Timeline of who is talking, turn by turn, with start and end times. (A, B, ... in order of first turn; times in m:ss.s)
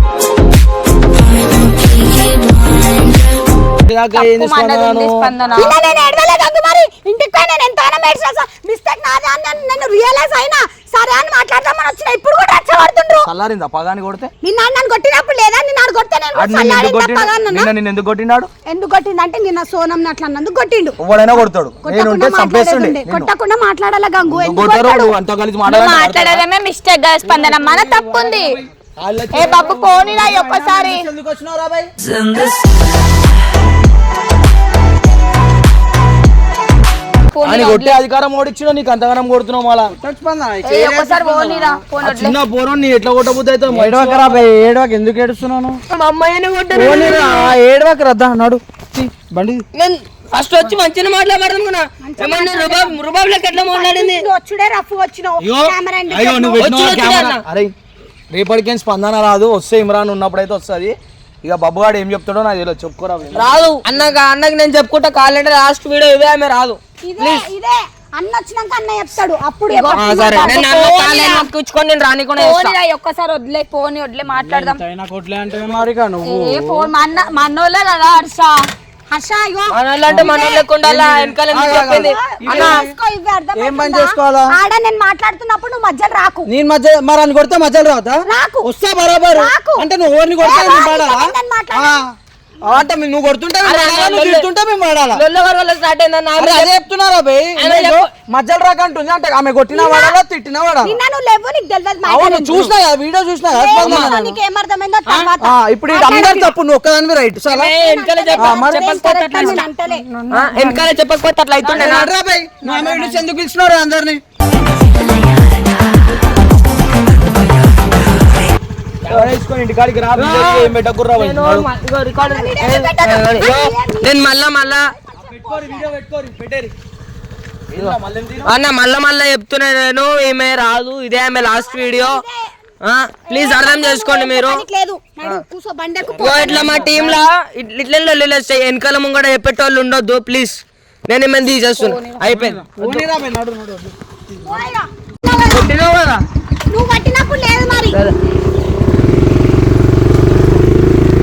0:03.8-0:05.3 A
0:04.1-0:05.7 B
0:05.6-0:13.3 C
0:13.2-0:14.3 A
0:14.4-0:17.7 C
0:16.4-0:18.5 A
0:18.7-0:21.0 C
0:21.0-0:23.3 A
0:21.8-0:25.1 C
0:24.3-0:26.4 A
0:25.6-0:28.6 B
0:27.2-0:28.6 D
0:29.0-0:30.2 A
0:29.3-0:31.1 B
0:29.8-0:31.9 D
0:37.3-0:38.0 B
0:37.4-0:39.9 A
0:40.0-0:41.8 D
0:40.6-0:42.4 B
0:42.0-0:44.4 A
0:43.7-0:45.8 D
0:45.9-0:47.5 E
0:46.7-0:49.6 D
0:49.7-0:54.3 E
0:52.0-0:53.0 C
0:53.5-0:57.1 C
0:55.4-0:57.7 A
0:56.6-0:57.4 E
0:58.3-1:03.8 A
1:03.4-1:07.4 E
1:07.0-1:10.6 C
1:09.7-1:11.5 B
1:09.9-1:12.8 E
1:12.4-1:14.8 B
1:14.4-1:16.9 D
1:16.2-1:18.5 B
1:19.1-1:20.6 C
1:19.7-1:22.8 E
1:20.1-1:22.9 D
1:21.6-1:26.5 C
1:23.5-1:24.6 D
1:26.5-1:32.1 D
1:28.3-1:28.7 C
1:29.3-1:29.9 C
1:30.4-1:32.0 C
1:32.6-1:35.2 D
1:33.6-1:34.5 E
1:35.1-1:36.8 E
1:36.4-1:41.0 D
1:37.6-1:38.1 E
1:39.7-1:40.2 C
1:40.8-1:42.7 C
1:42.0-1:44.2 D
1:43.5-1:46.6 C
1:43.8-1:44.3 E
1:45.1-1:45.3 E
1:45.4-1:47.8 D
1:47.5-1:49.7 E
1:47.8-1:50.1 C
1:48.4-1:49.0 D
1:49.3-1:50.9 B
1:50.3-1:52.1 E
1:51.6-1:52.1 B
1:51.7-1:54.2 D
1:52.7-1:53.2 B
1:59.0-1:59.3 E
1:59.1-2:01.7 A
2:00.2-2:04.9 E
2:02.2-2:04.2 C
2:05.0-2:05.9 C
2:05.2-2:06.7 A
2:07.7-2:08.5 A
2:08.4-2:12.2 E
2:11.4-2:12.5 C
2:12.8-2:14.6 E
2:13.3-2:17.0 C
2:16.2-2:23.1 E
2:21.7-2:22.2 B
2:22.3-2:24.6 D
2:24.4-2:25.6 C
2:25.4-2:26.2 E
2:26.7-2:28.0 C